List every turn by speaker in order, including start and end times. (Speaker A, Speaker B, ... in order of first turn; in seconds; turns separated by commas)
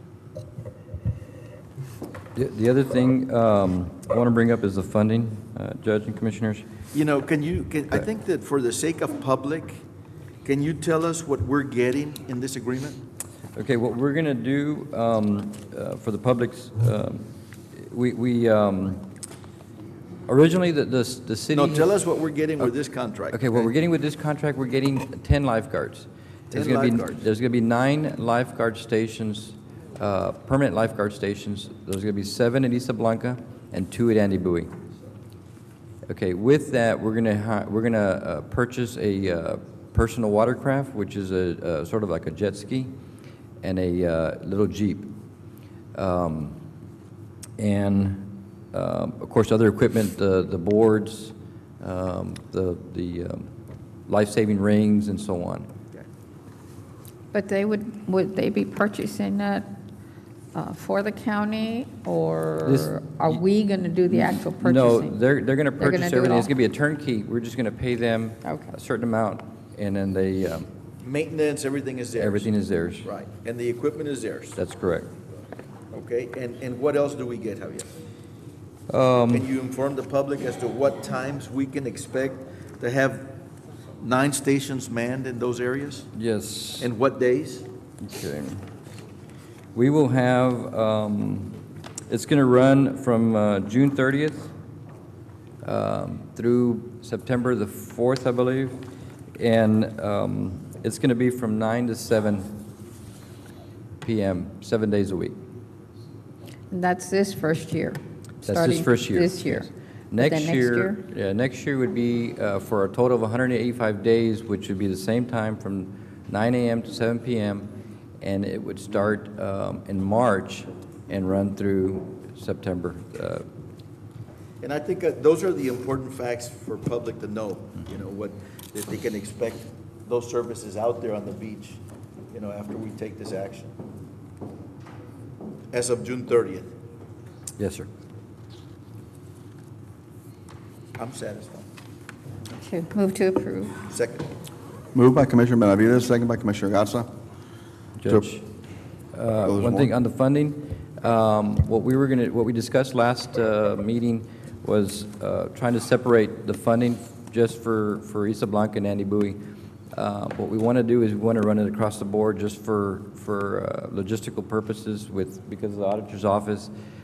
Speaker A: 2.3-6.7, Speaker B: 6.9-9.8, Speaker B: 10.4-13.0, Speaker A: 13.6-19.1, Speaker A: 20.3-21.9, Speaker B: 21.5-23.7, Speaker A: 23.3-34.7, Speaker B: 26.5-27.2, Speaker A: 36.0-42.9, Speaker A: 43.6-45.1, Speaker A: 45.9-46.6, Speaker A: 47.6-53.5, Speaker A: 54.1-55.7, Speaker C: 57.3-59.7, Speaker C: 60.5-65.2, Speaker A: 62.6-63.3, Speaker A: 64.1-70.7, Speaker C: 65.8-66.5, Speaker C: 68.4-68.7, Speaker B: 71.0-72.5, Speaker A: 72.1-73.1, Speaker B: 73.0-74.6, Speaker A: 74.5-75.1, Speaker B: 75.9-77.9, Speaker A: 78.9-79.5, Speaker B: 79.3-83.4, Speaker B: 84.0-86.1, Speaker A: 86.1-86.9, Speaker B: 86.8-87.7, Speaker A: 88.0-88.6, Speaker A: 89.7-91.6, Speaker A: 92.1-94.5, Speaker A: 95.6-98.8, Speaker A: 99.3-102.6, Speaker A: 104.0-105.4, Speaker C: 106.7-111.0, Speaker A: 108.4-117.7, Speaker A: 118.2-123.5, Speaker B: 124.6-133.7, Speaker B: 135.7-136.7, Speaker A: 137.6-137.9, Speaker B: 141.0-141.7, Speaker C: 142.6-143.8, Speaker B: 143.9-144.3, Speaker D: 144.9-147.1, Speaker A: 148.0-148.5, Speaker D: 148.1-148.3, Speaker A: 149.1-159.4, Speaker D: 149.4-149.9, Speaker A: 159.9-166.7